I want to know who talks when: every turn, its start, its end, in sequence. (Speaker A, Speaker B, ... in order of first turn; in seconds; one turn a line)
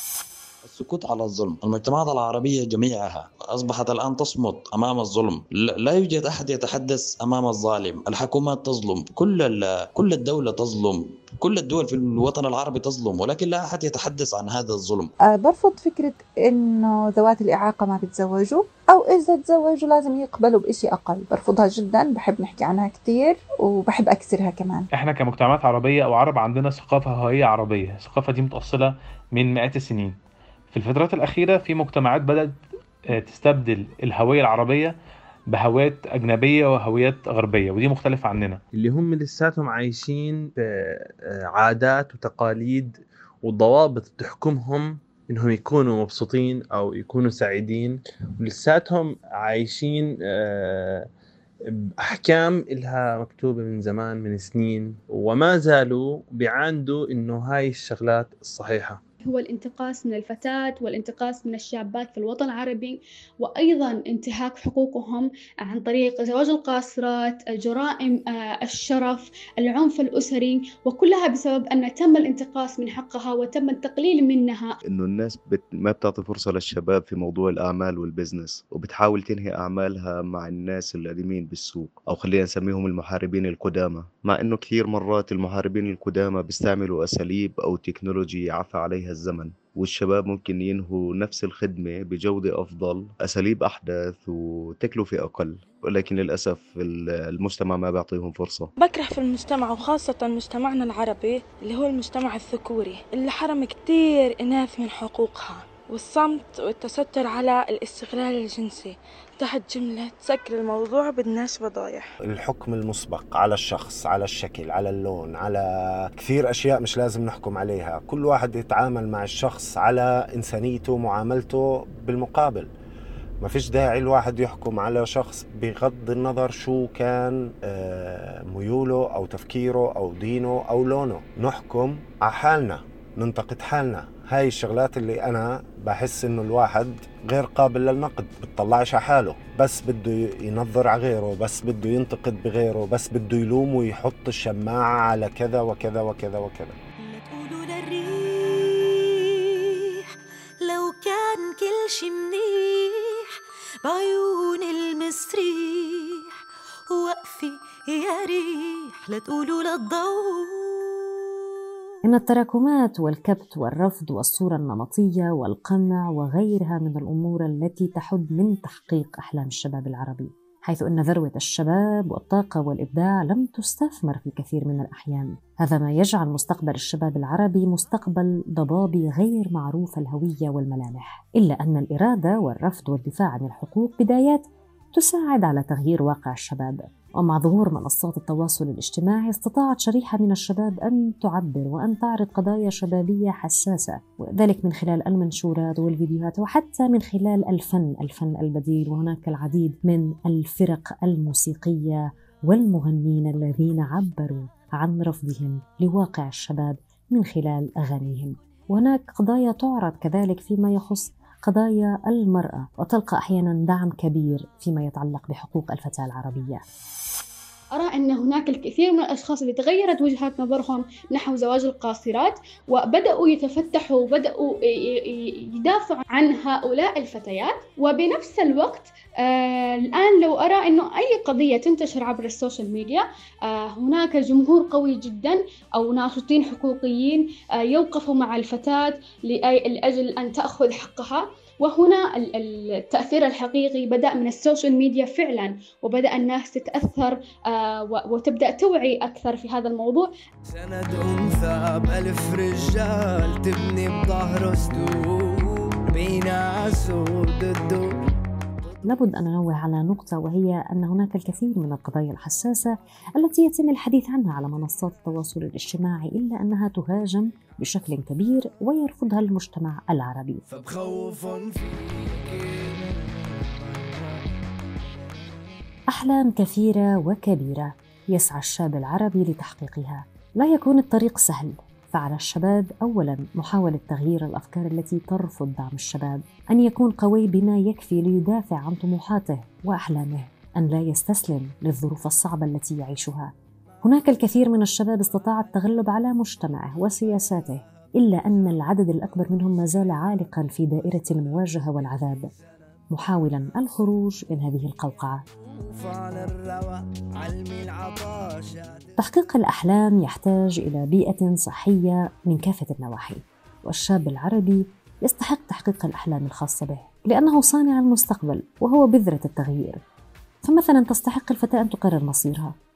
Speaker A: 0.7-15.1
Speaker B: 15.2-24.9
Speaker C: 24.9-30.2
Speaker C: 30.7-34.9
Speaker C: 35.5-38.6
Speaker D: 38.7-51.0
Speaker D: 52.0-59.0
Speaker E: 59.2-74.8
Speaker F: 74.9-98.7
Speaker G: 98.8-112.1
Speaker H: 112.2-115.6
Speaker H: 116.2-122.7
Speaker H: 123.4-146.8
Speaker I: 147.0-149.0
Speaker I: 150.6-153.3
Speaker I: 153.8-156.3
Speaker I: 156.9-161.1
Speaker J: 162.1-184.4
Speaker J: 184.9-216.6
Speaker E: 217.7-250.1
Speaker K: 250.7-255.0
Speaker K: 255.9-257.8
Speaker J: 258.9-270.4
Speaker K: 270.6-271.7
Speaker J: 275.9-293.3
Speaker J: 293.8-302.3
Speaker J: 302.9-305.2
Speaker K: 305.8-308.7
Speaker J: 309.0-319.8
Speaker J: 320.4-322.5